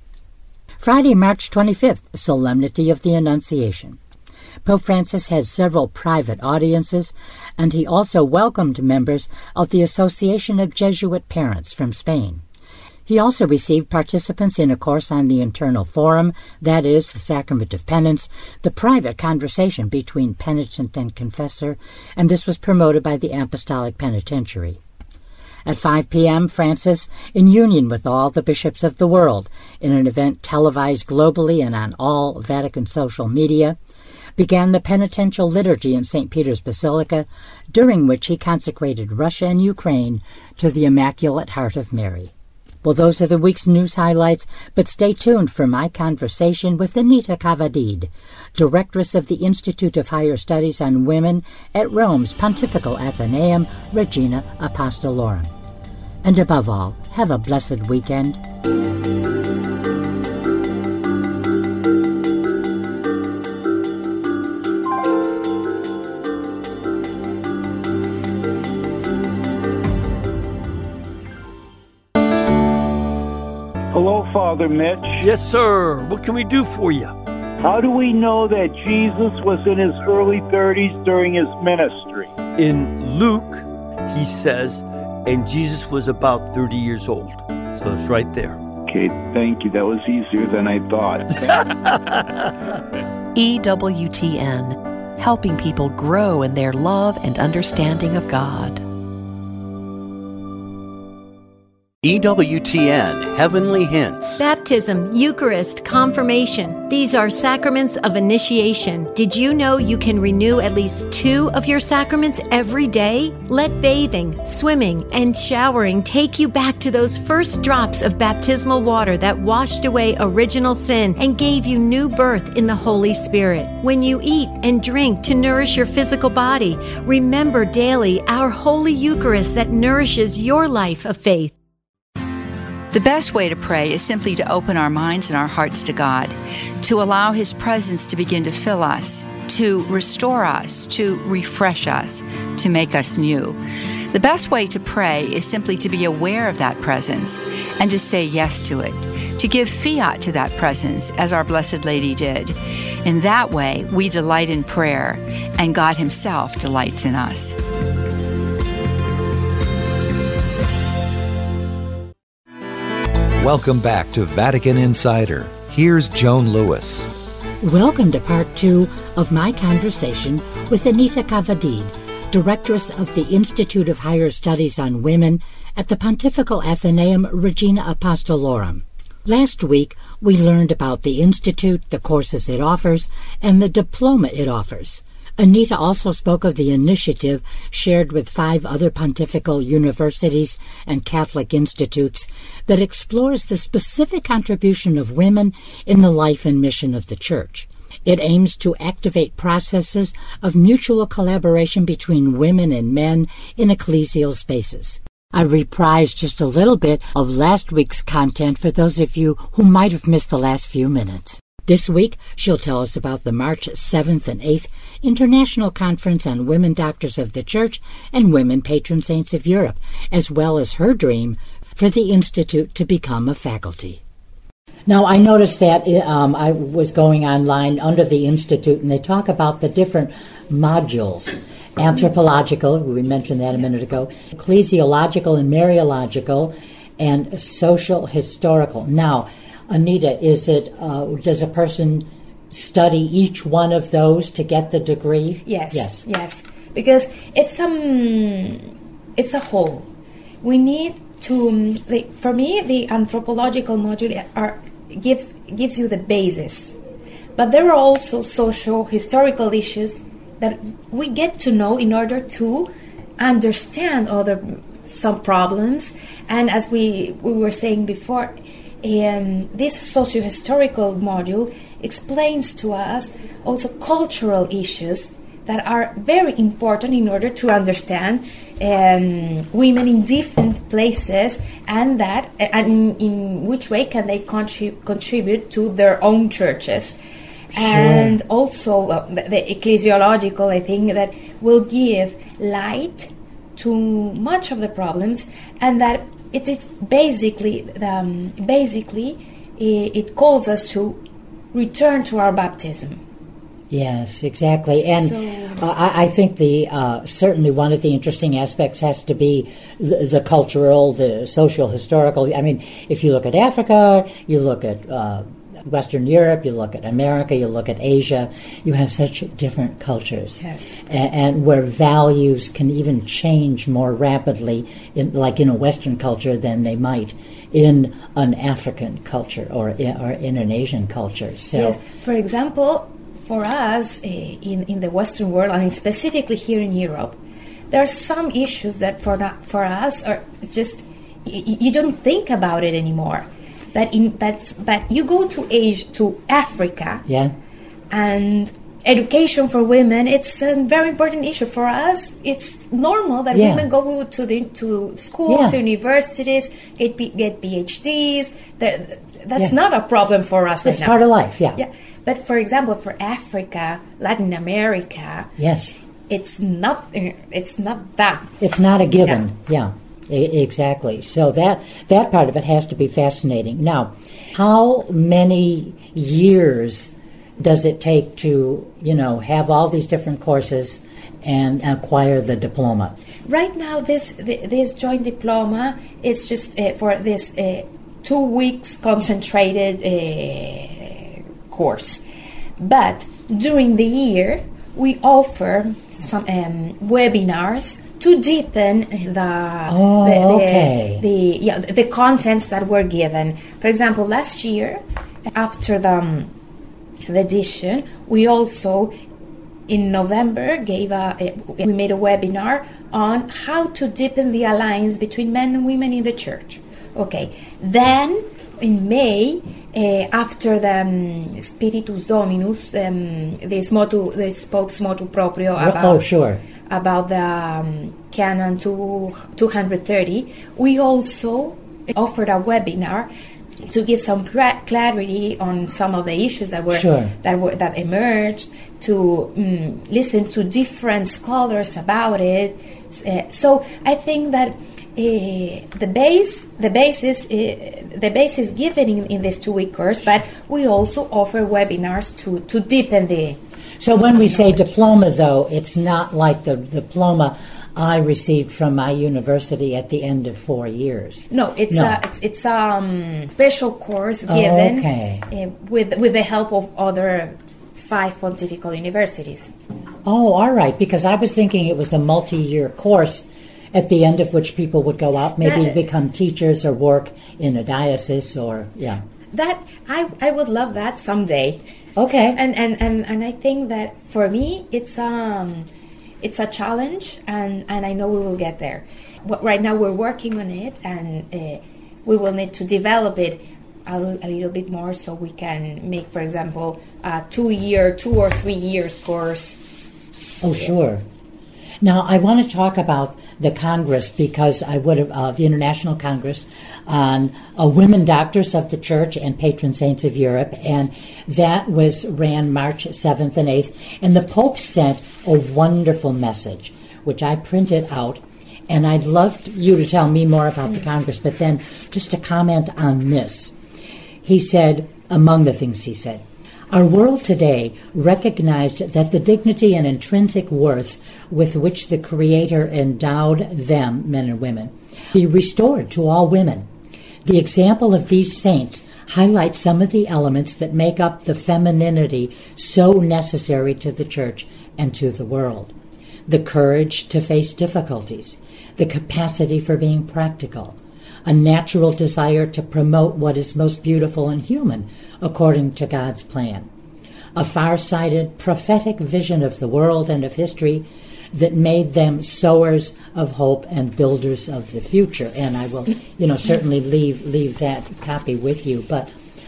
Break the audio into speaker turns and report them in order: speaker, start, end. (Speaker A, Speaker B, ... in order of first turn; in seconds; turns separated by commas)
Speaker A: 0.8-4.0, Speaker A: 4.6-12.4, Speaker A: 13.1-24.8, Speaker A: 25.6-33.8, Speaker A: 34.4-55.5, Speaker A: 56.2-58.4, Speaker B: 73.9-75.3, Speaker C: 75.2-77.2, Speaker B: 77.6-82.4, Speaker C: 82.5-88.6, Speaker B: 88.9-91.4, Speaker D: 93.3-98.8, Speaker E: 102.0-104.4, Speaker F: 104.4-131.5, Speaker G: 132.9-143.6, Speaker G: 144.1-157.6, Speaker H: 163.4-167.1, Speaker A: 167.6-224.0, Speaker A: 224.9-246.0, Speaker I: 245.4-249.9, Speaker I: 250.4-256.8, Speaker I: 257.4-287.0, Speaker I: 287.5-301.0, Speaker A: 287.6-288.2, Speaker I: 301.5-303.0, Speaker A: 303.7-331.8, Speaker I: 305.0-305.6, Speaker I: 320.4-320.8, Speaker I: 331.5-337.2, Speaker I: 337.7-347.1, Speaker A: 347.1-347.3, Speaker I: 347.9-361.0, Speaker A: 353.3-353.7, Speaker A: 355.3-355.6, Speaker A: 360.6-361.6, Speaker I: 361.6-365.3, Speaker A: 365.4-365.8, Speaker I: 366.1-368.3, Speaker A: 368.4-383.0, Speaker I: 383.3-392.0, Speaker I: 392.6-404.8, Speaker A: 399.7-401.0, Speaker I: 405.3-406.3, Speaker I: 407.1-408.9, Speaker I: 409.7-426.1, Speaker A: 425.6-426.4, Speaker I: 426.7-433.1, Speaker I: 433.6-453.4, Speaker A: 436.7-437.1, Speaker A: 453.8-462.0, Speaker I: 454.1-454.7, Speaker I: 461.3-469.5, Speaker A: 464.3-465.3, Speaker A: 470.1-479.0, Speaker I: 475.4-475.8, Speaker I: 479.3-481.6, Speaker A: 482.0-482.4, Speaker I: 482.3-485.7, Speaker I: 486.2-499.6, Speaker A: 500.4-501.1, Speaker A: 501.8-523.5, Speaker A: 524.2-536.7, Speaker A: 537.2-545.7, Speaker A: 546.3-556.7, Speaker A: 557.4-569.1